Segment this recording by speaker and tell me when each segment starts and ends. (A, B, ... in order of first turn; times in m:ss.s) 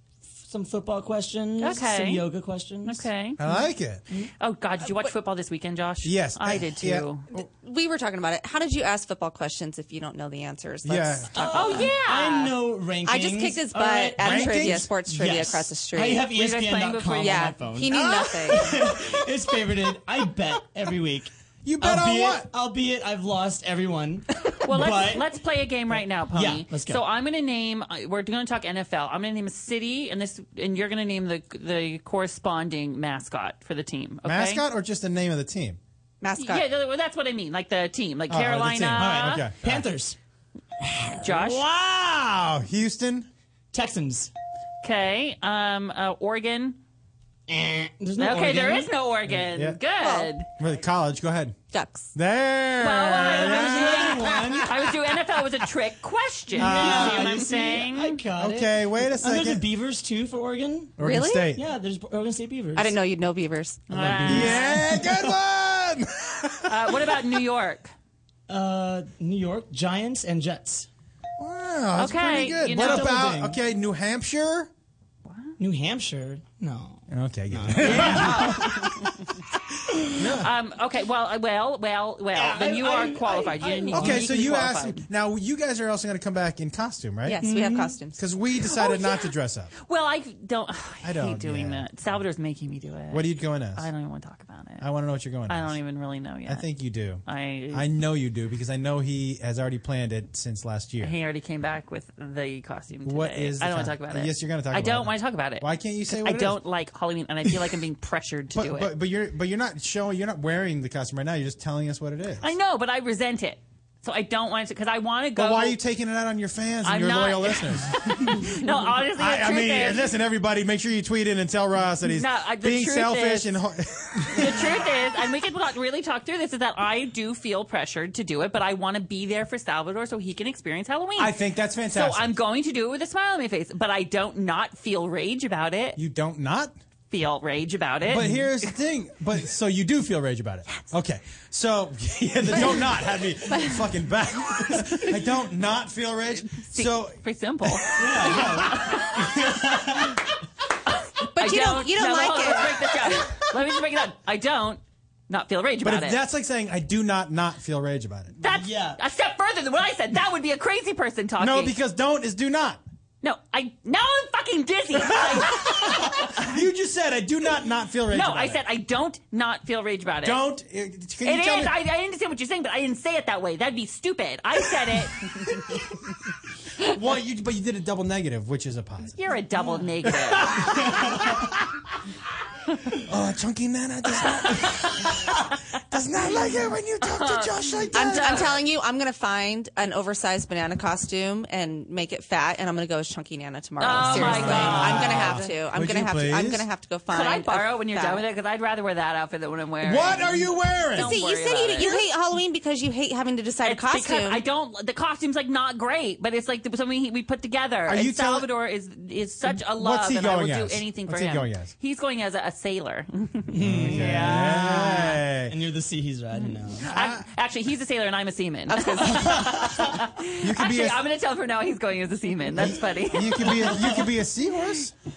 0:00.4-0:03.1 A
0:01.6-0:02.2 B
0:02.9-0:03.4 B
0:03.4-0:04.0 C
0:04.4-0:07.3 B
0:06.0-0:07.5 C
0:07.4-0:12.0 D
0:10.8-0:11.4 C
0:11.4-0:25.3 A
0:11.5-0:12.5 B
0:13.0-0:16.3 D
0:14.2-0:14.9 C
0:16.3-0:17.5 B
0:17.2-0:18.8 D
0:21.6-0:22.5 C
0:24.6-0:34.6 B
0:25.9-0:27.0 A
0:34.2-0:35.8 C
0:36.2-0:36.7 D
0:36.4-0:39.5 B
0:38.3-0:39.8 C
0:39.0-0:40.2 A
0:41.1-0:41.9 A
0:41.2-0:41.6 B
0:41.8-0:43.3 C
0:43.7-0:44.3 A
0:44.8-0:46.8 B
0:47.5-0:48.9 A
0:48.2-0:50.5 B
0:49.3-0:49.8 C
0:50.0-0:50.3 D
0:50.6-0:51.6 C
0:51.7-0:52.1 D
0:52.1-0:54.9 C
0:52.8-0:58.2 B
0:53.1-0:54.7 A
0:56.5-1:01.0 A
0:56.6-0:57.4 C
0:58.4-0:59.6 C
1:01.0-1:01.6 C
1:01.0-1:01.5 D
1:01.5-1:03.0 A
1:02.8-1:03.9 D
1:03.9-1:05.3 A
1:03.9-1:04.8 B
1:04.3-1:07.4 C
1:06.7-1:07.9 B
1:08.5-1:10.9 A
1:11.4-1:14.7 C
1:12.0-1:13.2 B
1:12.6-1:13.6 A
1:15.3-1:15.5 B
1:15.6-1:18.6 A
1:17.1-1:18.9 C
1:17.8-1:19.1 B
1:20.2-1:20.5 C
1:20.4-1:25.1 B
1:22.3-1:24.2 A
1:23.9-1:27.5 C
1:27.2-1:28.2 D
1:27.4-1:28.0 A
1:28.2-1:29.7 C
1:28.6-1:34.8 B
1:31.0-1:31.9 C
1:33.1-1:33.9 C
1:34.8-1:35.8 C
1:35.5-1:36.7 B
1:36.5-1:41.1 C
1:37.3-1:37.8 B
1:41.0-1:48.9 B
1:43.0-1:46.6 C
1:48.5-1:52.5 C
1:52.4-1:55.8 B
1:55.4-1:58.4 C
1:56.8-2:00.1 B
1:59.2-2:04.8 C
2:02.1-2:03.5 B
2:04.3-2:11.3 B
2:11.2-2:12.4 C
2:11.9-2:16.0 B
2:16.0-2:16.8 C
2:17.1-2:18.7 B
2:18.1-2:28.8 C
2:26.3-2:29.1 B
2:28.0-2:30.2 A
2:31.3-2:33.3 D
2:31.4-2:36.2 B
2:35.8-2:38.4 C
2:38.4-2:41.8 B
2:38.5-2:39.0 A
2:41.4-2:42.8 C
2:43.2-2:46.5 B
2:45.0-2:48.6 C
2:48.1-2:50.4 B
2:50.2-2:51.7 C
2:51.2-2:55.8 B
2:56.8-2:59.2 C
2:59.2-3:00.9 B
3:00.1-3:01.6 C
3:01.1-3:01.4 A
3:03.0-3:08.6 C
3:04.2-3:04.6 B
3:07.0-3:08.5 B
3:07.9-3:18.2 D
3:13.8-3:15.5 B
3:13.9-3:16.7 C
3:14.3-3:15.0 A
3:17.1-3:22.0 B
3:19.8-3:21.2 C
3:21.0-3:24.4 D
3:23.6-3:35.2 B
3:27.9-3:28.5 C
3:29.4-3:31.7 C
3:33.5-3:36.9 A
3:33.6-3:35.6 C
3:36.4-3:43.7 B
3:36.8-3:37.3 C
3:38.7-3:39.1 D
3:39.0-3:41.0 C
3:43.1-3:44.9 C
3:43.5-3:44.0 A